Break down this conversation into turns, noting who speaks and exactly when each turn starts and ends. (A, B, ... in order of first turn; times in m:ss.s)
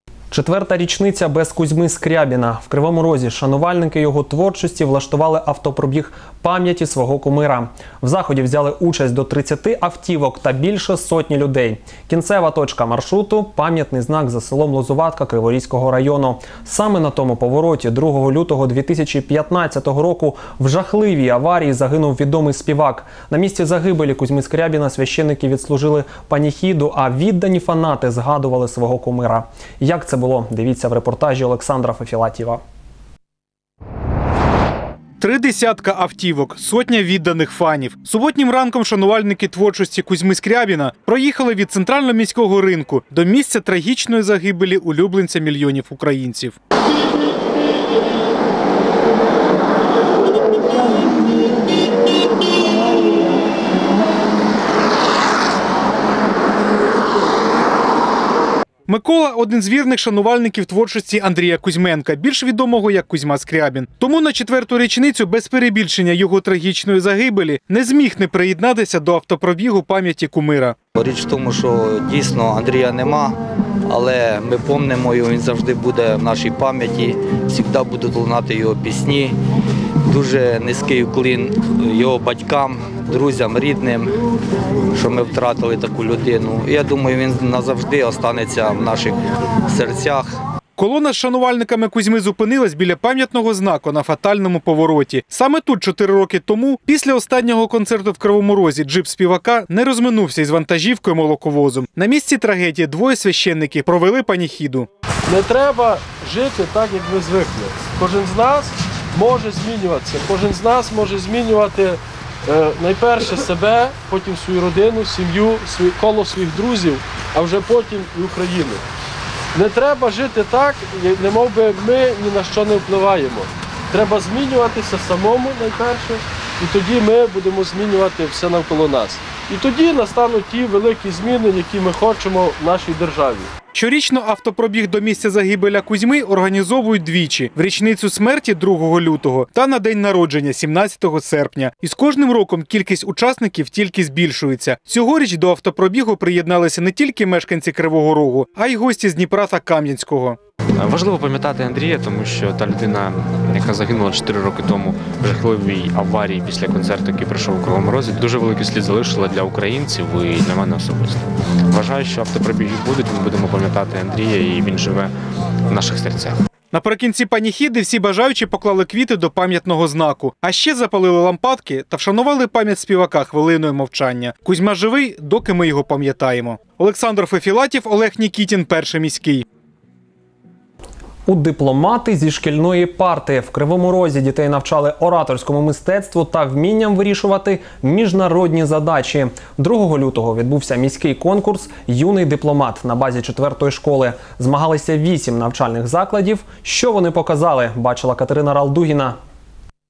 0:00.3-0:32.6 A
0:35.2-0:46.6 B
0:58.9-1:10.8 B
1:11.0-1:13.4 C
1:13.9-1:19.4 C
1:20.1-1:24.1 C
1:25.0-1:30.3 C
1:30.8-1:44.9 B
1:45.3-1:58.8 D
1:59.6-2:13.5 D
2:13.8-2:30.4 B
2:30.8-2:41.2 E
2:41.7-2:45.1 E
2:45.7-2:46.4 E
2:46.7-2:59.4 B
3:01.3-3:19.2 A